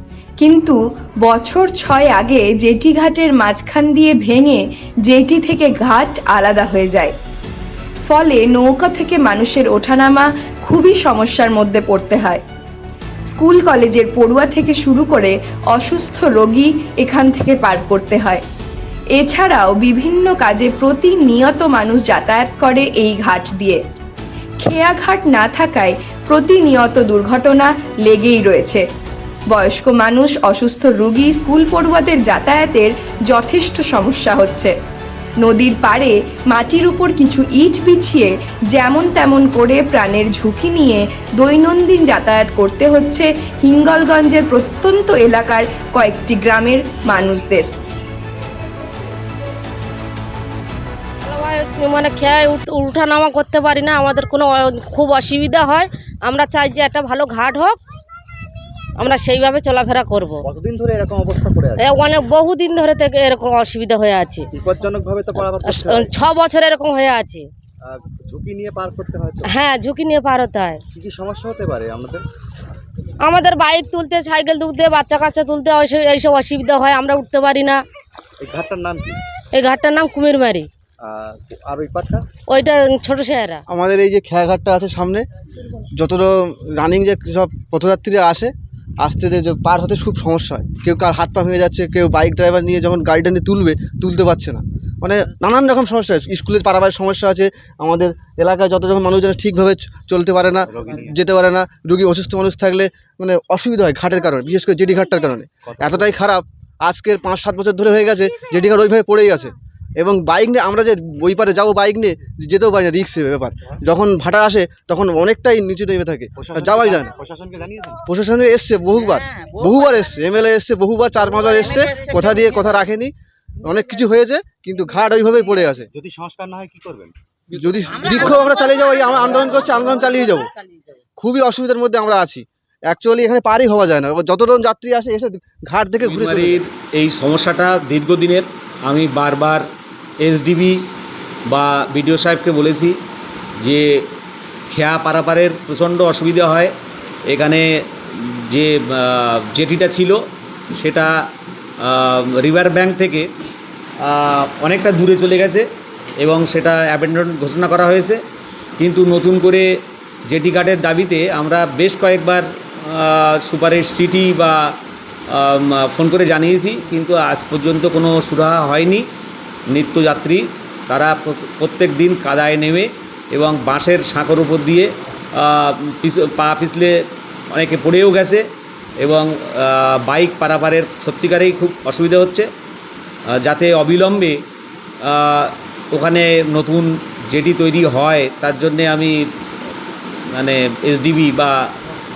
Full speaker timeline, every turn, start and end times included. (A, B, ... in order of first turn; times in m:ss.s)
0:00.4-0:07.1 A
0:08.0-0:12.4 A
0:13.3-0:18.4 A
0:19.1-0:23.8 A
0:24.6-0:28.8 A
0:29.5-0:34.7 A
0:35.4-0:47.7 A
0:51.2-0:57.8 B
0:59.0-1:00.4 B
1:00.4-1:02.1 C
1:01.8-1:04.5 B
1:04.5-1:06.1 C
1:05.4-1:07.5 B
1:07.8-1:09.6 C
1:09.4-1:10.8 B
1:10.9-1:12.2 C
1:13.2-1:17.8 B
1:18.4-1:19.2 C
1:19.5-1:20.7 B
1:21.0-1:22.3 C
1:22.5-1:23.6 B
1:23.7-1:25.2 D
1:25.9-1:57.1 D
1:40.7-1:41.1 C
1:45.7-1:46.1 C
1:56.4-1:58.0 C
1:58.0-2:05.9 D
2:05.9-2:07.1 C
2:07.5-2:10.5 D
2:11.2-2:16.6 D
2:16.0-2:19.6 E
2:20.2-2:20.8 E
2:21.5-2:23.0 E
2:23.6-2:24.1 E
2:24.7-2:26.7 E
2:27.3-2:31.2 E
2:31.8-2:33.3 E
2:34.0-2:35.6 E
2:36.2-2:38.2 E
2:38.8-2:39.6 E
2:40.3-2:44.7 E
2:45.3-2:49.0 E
2:49.7-2:57.0 E
2:57.5-2:58.4 E
2:59.0-3:02.5 E
3:03.4-3:04.4 E
3:05.0-3:09.1 E
3:10.3-3:11.5 E